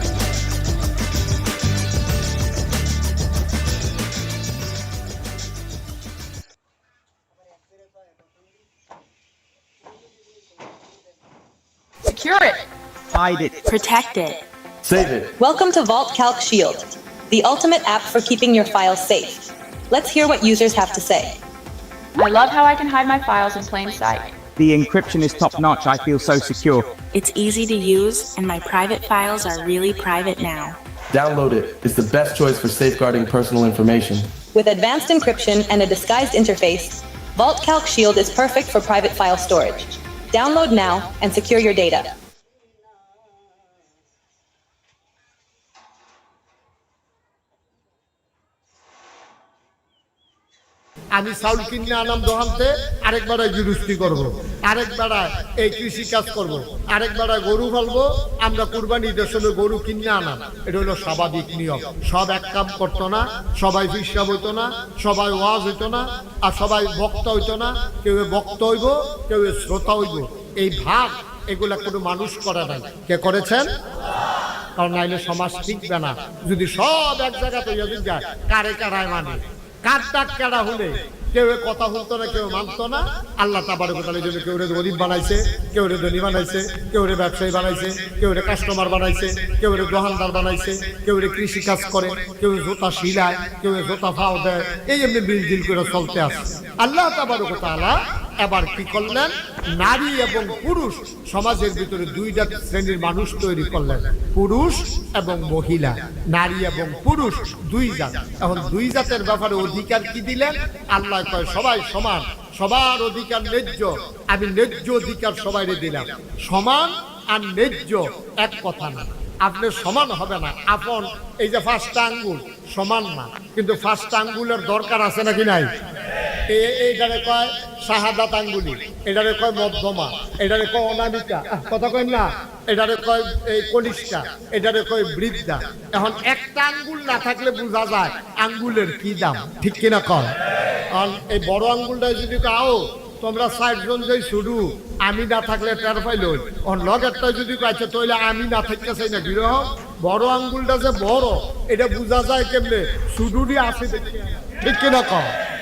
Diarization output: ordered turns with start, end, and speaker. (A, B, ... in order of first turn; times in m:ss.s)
0:12.0-0:12.6 A
0:13.1-0:13.6 B
0:13.6-0:14.4 C
0:14.8-0:15.4 D
0:15.4-0:21.4 E
0:22.2-0:24.4 A
0:24.6-0:27.0 B
0:27.1-0:30.8 C
0:31.1-0:34.3 D
0:34.5-0:42.1 E
0:51.2-1:13.7 F
1:14.8-2:05.7 F
2:06.5-2:20.3 F
2:20.9-2:35.3 F